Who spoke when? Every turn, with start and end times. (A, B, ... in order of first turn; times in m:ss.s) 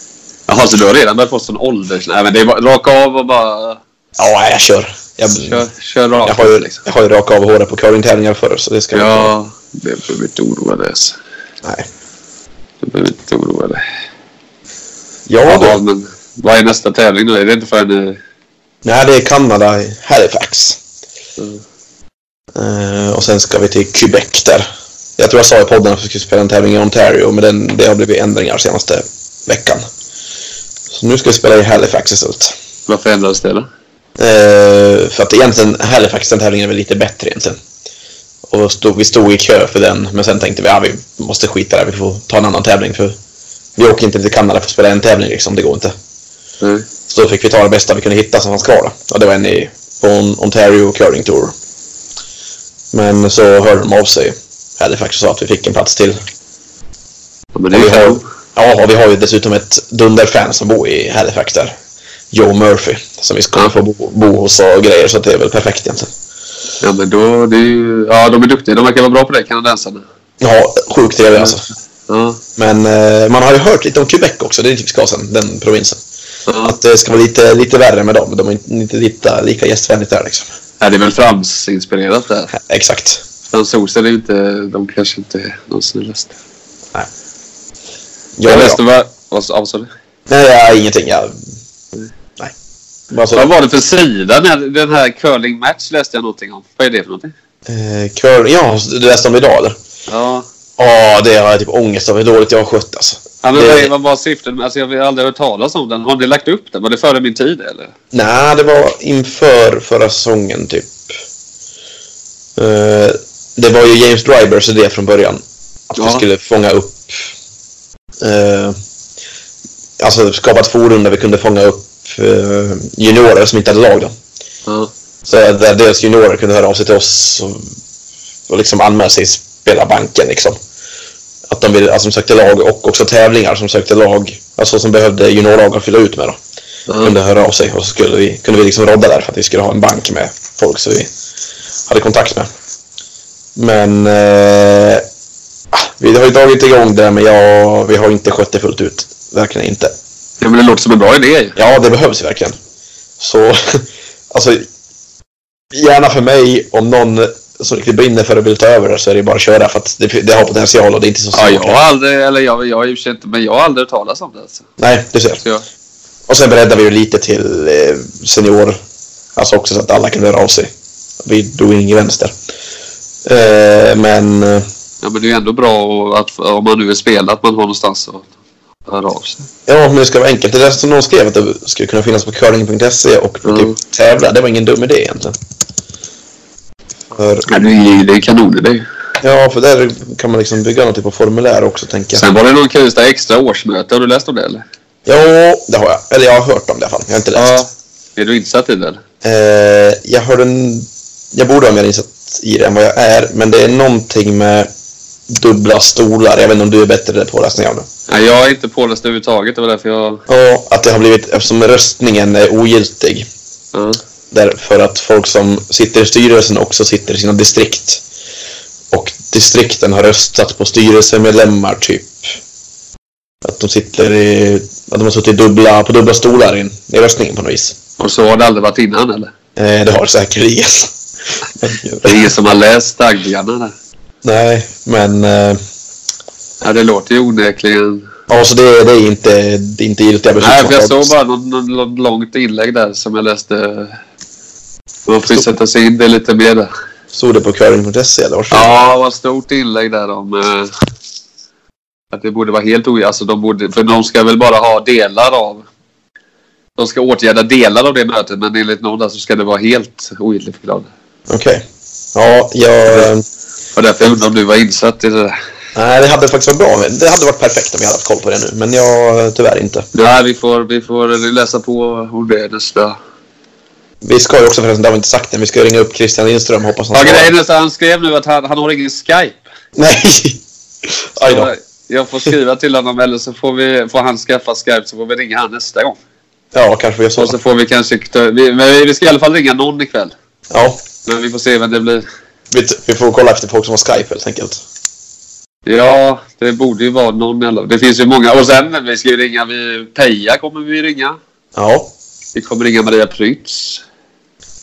0:00.5-0:03.8 A
0:04.2-0:05.6 B
0:05.3-0:06.8 A
0:06.2-0:09.3 B
0:08.9-0:11.2 A
0:12.8-0:13.8 A
0:15.3-0:15.8 B
0:15.5-0:18.2 A
0:18.8-0:20.8 B
0:22.6-0:24.7 B
0:25.2-0:29.9 B
0:30.9-0:32.6 B
0:32.9-0:33.7 A
0:34.2-0:37.6 B
0:38.5-0:43.2 B
0:43.8-0:45.9 B
0:46.6-0:46.9 A
0:47.1-0:51.6 B
0:52.9-0:56.2 B
0:57.6-0:58.2 A
0:57.7-1:01.8 B
1:02.3-1:06.1 B
1:06.8-1:10.0 A
1:10.4-1:11.7 B
1:12.1-1:12.4 A
1:12.6-1:16.0 B
1:16.5-1:16.8 A
1:16.6-1:20.5 B
1:20.8-1:22.5 A
1:22.5-1:23.2 B
1:23.5-1:26.4 A
1:28.4-1:28.8 B
1:28.4-1:29.9 A
1:30.3-1:31.4 B
1:33.1-1:33.5 B
1:33.3-1:37.3 A
1:37.7-1:39.8 B
1:40.1-1:40.5 A
1:40.8-1:43.9 B
1:43.4-1:47.9 A
1:48.1-1:51.1 B
1:52.6-1:57.3 B
1:56.0-1:56.2 A
1:58.2-1:58.8 B
2:00.0-2:04.1 B
2:05.3-2:07.7 B
2:08.5-2:10.6 B
2:11.5-2:16.4 B
2:16.9-2:17.2 A
2:17.0-2:21.1 B
2:21.9-2:22.5 B
2:23.6-2:25.1 B
2:25.7-2:29.9 B
2:30.4-2:31.6 A
2:31.6-2:32.6 B
2:33.2-2:34.7 B
2:35.7-2:41.8 B
2:41.3-2:44.7 A
2:44.8-2:45.4 B
2:46.3-2:48.8 B
2:49.4-2:50.7 B
2:51.2-2:52.3 B
2:53.3-2:54.7 B
2:55.0-2:58.3 A
2:58.9-2:59.5 A
2:59.7-3:05.4 B
3:03.4-3:03.8 A
3:07.1-3:07.5 B
3:07.5-3:08.8 A
3:09.2-3:12.2 B
3:12.1-3:14.6 A
3:15.1-3:17.6 B
3:17.4-3:19.0 A
3:19.2-3:24.7 B
3:25.3-3:27.9 B
3:28.1-3:30.2 A
3:30.3-3:33.3 B
3:33.7-3:34.0 A
3:34.3-3:38.0 B
3:38.9-3:42.3 B
3:43.4-3:47.8 B
3:48.0-3:49.3 A
3:49.6-3:50.9 B
3:51.6-3:52.3 B
3:52.0-3:53.7 A
3:54.2-3:55.6 B
3:56.6-3:58.1 A
3:58.3-4:01.1 B
4:00.4-4:04.0 A
4:05.1-4:06.7 A
4:07.1-4:08.7 B
4:08.5-4:10.7 A
4:12.1-4:15.6 A
4:16.8-4:20.9 A
4:21.3-4:23.2 B
4:23.8-4:25.4 A
4:25.8-4:29.9 B
4:29.9-4:33.0 A
4:34.0-4:37.3 B
4:36.9-4:39.4 A
4:39.8-4:41.5 B
4:41.2-4:46.0 A
4:46.5-4:47.4 B
4:47.2-4:50.1 A
4:50.5-4:50.8 B
4:51.1-4:52.0 A
4:52.5-4:54.6 B
4:55.7-5:01.2 A
5:01.6-5:01.9 B
5:02.4-5:03.8 A